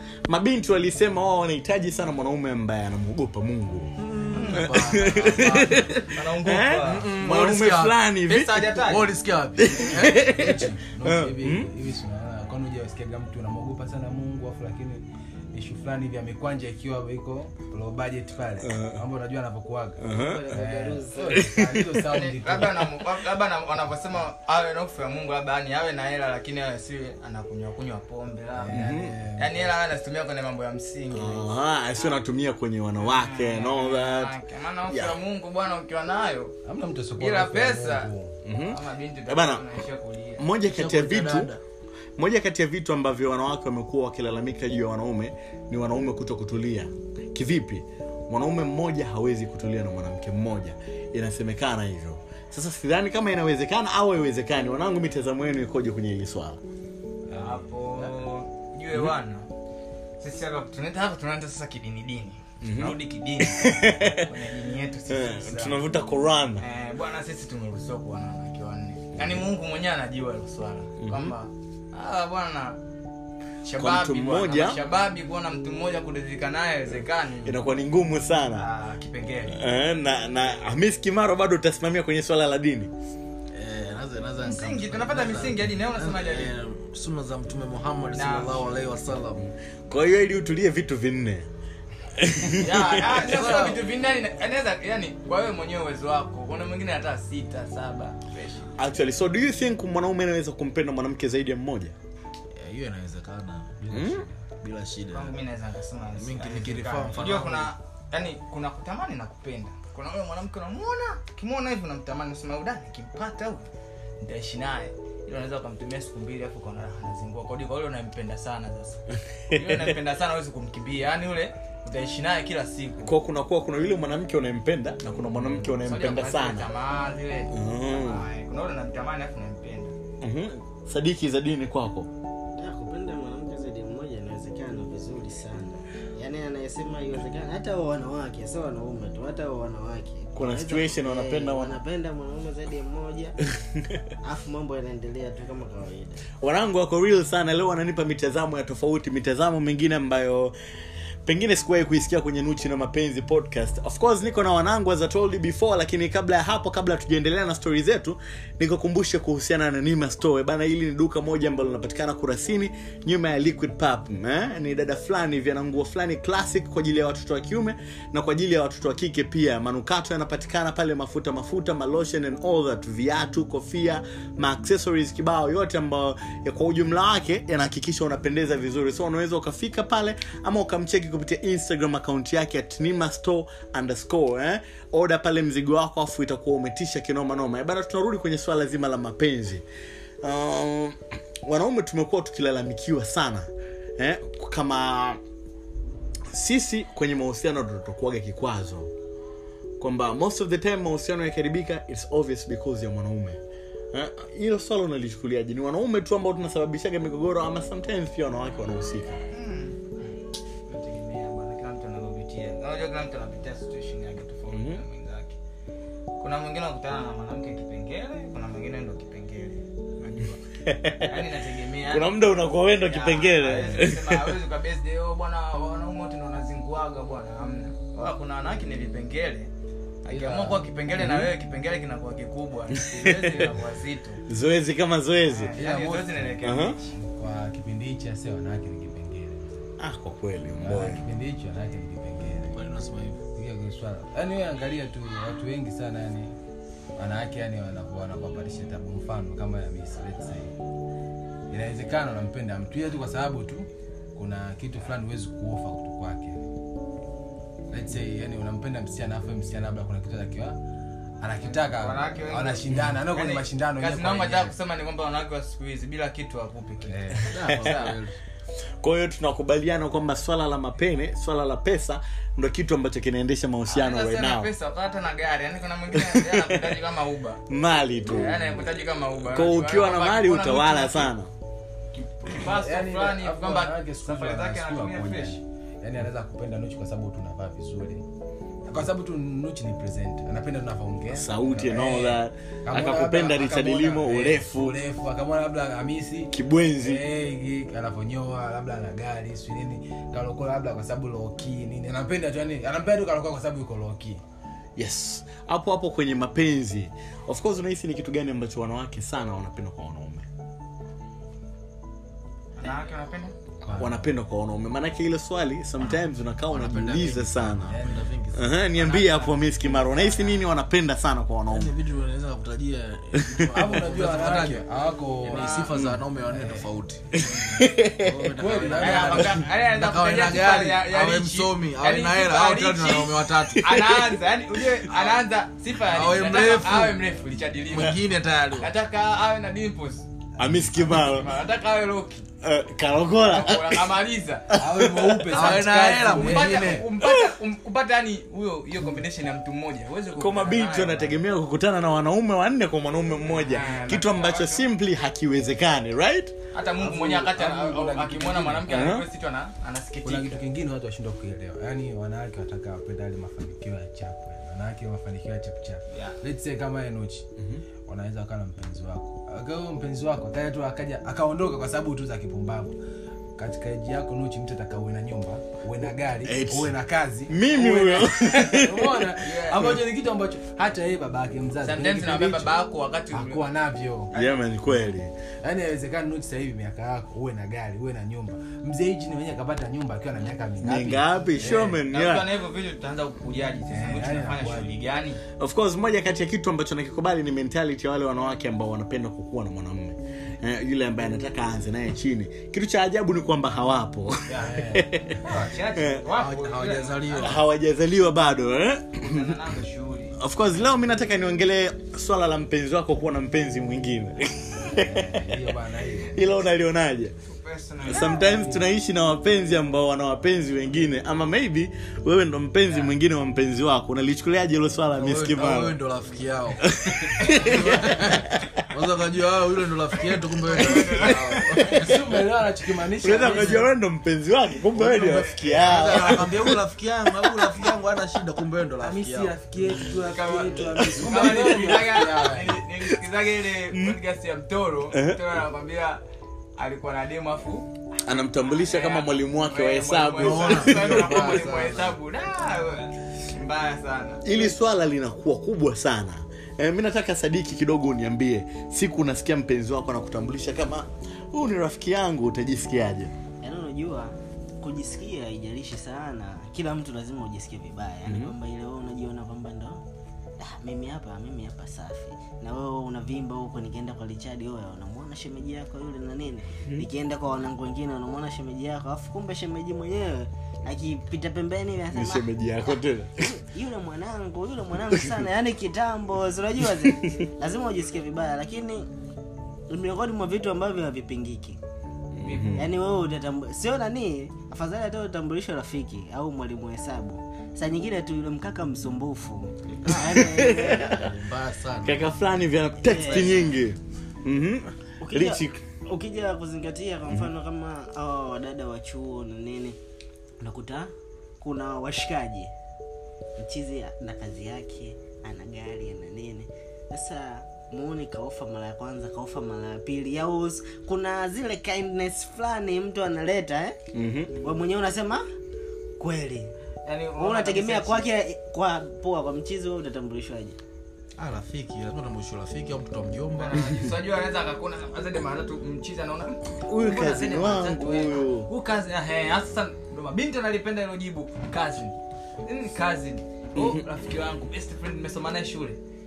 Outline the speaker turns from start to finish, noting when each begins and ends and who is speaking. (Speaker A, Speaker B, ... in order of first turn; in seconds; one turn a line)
Speaker A: 0.3-3.9
Speaker B: 4.0-5.9
Speaker C: 4.3-4.7
Speaker A: 4.5-8.7
Speaker C: 6.1-7.1
Speaker B: 6.8-8.0
Speaker C: 8.3-9.1
Speaker B: 8.8-10.3
Speaker A: 9.6-11.7
Speaker D: 10.2-22.8
Speaker A: 18.6-19.0
Speaker A: 20.0-20.5
Speaker E: 20.1-21.4
Speaker A: 21.4-21.9
Speaker C: 22.1-31.5
Speaker D: 28.6-29.7
Speaker A: 28.7-29.1
Speaker A: 31.1-34.3
Speaker C: 33.0-36.5
Speaker A: 34.9-35.2
Speaker D: 36.6-38.4
Speaker C: 37.2-38.1
Speaker A: 38.4-39.7
Speaker C: 38.6-40.5
Speaker A: 40.4-41.5
Speaker B: 40.7-41.6
Speaker A: 42.2-56.6
Speaker D: 57.3-58.1
Speaker C: 57.4-59.5
Speaker C: 60.2-65.8
Speaker A: 62.6-64.3
Speaker A: 65.1-66.6
Speaker C: 66.6-72.8
Speaker A: 71.0-71.3
Speaker C: 73.6-77.6
Speaker A: 73.8-74.8
Speaker A: 77.4-78.7
Speaker C: 78.5-79.5
Speaker A: 79.5-82.9
Speaker B: 83.5-89.4
Speaker C: 84.4-86.5
Speaker C: 88.1-88.6
Speaker A: 89.9-91.5
Speaker A: 92.2-93.1
Speaker C: 92.5-98.7
Speaker B: 93.2-93.8
Speaker A: 98.8-102.0
Speaker B: 102.6-105.4
Speaker D: 103.8-104.3
Speaker A: 103.9-104.2
Speaker C: 105.1-113.7
Speaker B: 106.2-107.7
Speaker C: 114.2-123.1
Speaker A: 119.5-119.8
Speaker A: 123.0-126.7
Speaker C: 125.6-129.9
Speaker A: 127.5-128.2
Speaker A: 130.2-132.1
Speaker E: 132.6-143.4
Speaker A: 140.4-141.8
Speaker E: 144.2-146.2
Speaker A: 146.4-150.6
Speaker A: 151.2-189.6
Speaker A: 190.2-195.2
Speaker A: 196.3-198.9
Speaker A: 199.8-203.4
Speaker A: 203.9-209.2
Speaker C: 209.3-209.8
Speaker C: 210.7-215.4
Speaker A: 214.5-214.8
Speaker C: 216.2-220.4
Speaker A: 220.6-221.2
Speaker C: 221.0-222.2
Speaker A: 221.9-224.3
Speaker C: 222.8-229.5
Speaker A: 230.1-231.3
Speaker C: 230.1-234.2
Speaker A: 232.7-233.5
Speaker A: 234.3-235.5
Speaker C: 235.3-236.9
Speaker D: 235.6-239.7
Speaker A: 236.4-236.8
Speaker A: 239.8-241.0
Speaker D: 240.6-242.7
Speaker B: 242.5-243.2
Speaker D: 243.3-246.3
Speaker D: 246.9-250.5
Speaker D: 251.5-256.5
Speaker D: 257.7-260.6
Speaker D: 261.2-264.5
Speaker C: 261.4-266.9
Speaker D: 266.9-267.6
Speaker B: 267.3-268.2
Speaker A: 267.4-267.9
Speaker A: 268.8-274.5
Speaker C: 273.7-277.4
Speaker A: 275.9-276.8
Speaker A: 277.5-278.6
Speaker C: 278.1-281.1
Speaker A: 279.2-281.3
Speaker C: 281.9-285.4
Speaker D: 282.3-288.1
Speaker D: 288.7-304.2
Speaker A: 291.1-294.8
Speaker A: 296.3-297.0
Speaker A: 304.8-310.3
Speaker C: 312.6-313.3
Speaker D: 313.6-314.1
Speaker A: 313.7-317.8
Speaker B: 316.5-318.6
Speaker D: 317.6-318.1
Speaker A: 318.3-321.7
Speaker C: 318.7-320.4
Speaker B: 321.5-324.7
Speaker A: 323.2-323.7
Speaker D: 323.6-325.6
Speaker B: 325.2-327.0
Speaker C: 325.3-325.7
Speaker A: 325.7-326.0
Speaker D: 326.3-326.7
Speaker A: 327.2-328.2
Speaker B: 328.0-333.6
Speaker D: 328.3-329.4
Speaker C: 328.7-340.1
Speaker A: 333.6-334.2
Speaker B: 335.9-337.0
Speaker B: 337.7-338.7
Speaker A: 340.4-341.4
Speaker C: 340.8-342.2
Speaker A: 342.4-345.2
Speaker C: 343.1-344.5
Speaker D: 344.5-346.9
Speaker B: 345.3-346.9
Speaker C: 345.4-351.1
Speaker A: 347.0-347.3
Speaker A: 350.1-356.3
Speaker D: 353.4-354.0
Speaker C: 353.4-354.7
Speaker C: 356.5-360.4
Speaker D: 356.8-358.9
Speaker A: 358.7-359.1
Speaker D: 360.0-367.3
Speaker C: 365.9-366.2
Speaker D: 367.9-372.8
Speaker D: 373.4-382.6
Speaker A: 376.2-376.7
Speaker A: 377.3-379.1
Speaker C: 379.2-379.8
Speaker C: 381.6-383.5
Speaker D: 383.1-384.1
Speaker A: 384.1-385.1
Speaker D: 385.4-391.6
Speaker A: 390.6-392.3
Speaker C: 391.4-395.2
Speaker D: 393.7-394.8
Speaker A: 395.4-406.0
Speaker D: 404.4-405.5
Speaker C: 405.3-407.4
Speaker B: 406.0-407.4
Speaker A: 407.2-409.4
Speaker C: 409.0-410.2
Speaker A: 410.2-417.1
Speaker D: 414.7-416.3
Speaker C: 417.3-418.3
Speaker A: 417.8-425.8
Speaker D: 418.1-418.6
Speaker B: 424.9-432.0
Speaker A: 426.7-428.6
Speaker C: 430.4-431.6
Speaker A: 430.8-431.8
Speaker D: 431.6-433.7
Speaker A: 433.0-436.6
Speaker B: 434.7-439.4
Speaker C: 435.1-436.2
Speaker A: 437.2-437.6
Speaker D: 438.8-442.6
Speaker C: 439.9-446.0
Speaker A: 441.4-441.7
Speaker A: 443.7-444.0
Speaker A: 444.9-445.3
Speaker C: 446.6-447.7
Speaker A: 448.0-451.4
Speaker C: 448.4-454.5
Speaker B: 450.2-451.9
Speaker A: 454.2-463.1
Speaker E: 463.4-469.8
Speaker A: 468.1-468.3
Speaker E: 470.4-488.9
Speaker A: 481.9-483.3
Speaker A: 486.8-487.1
Speaker E: 489.7-491.6
Speaker A: 492.1-492.7
Speaker C: 492.2-492.7
Speaker E: 492.6-501.0
Speaker B: 499.8-502.2
Speaker A: 500.1-501.1
Speaker A: 501.8-505.6
Speaker E: 502.8-503.5
Speaker B: 502.9-503.5
Speaker E: 505.0-509.8
Speaker E: 510.4-512.5
Speaker E: 513.4-523.8
Speaker A: 523.9-524.3
Speaker E: 524.4-525.2
Speaker E: 526.0-526.5
Speaker C: 526.9-528.1
Speaker E: 527.2-530.6
Speaker B: 531.2-533.9
Speaker C: 533.4-545.8
Speaker A: 536.6-538.5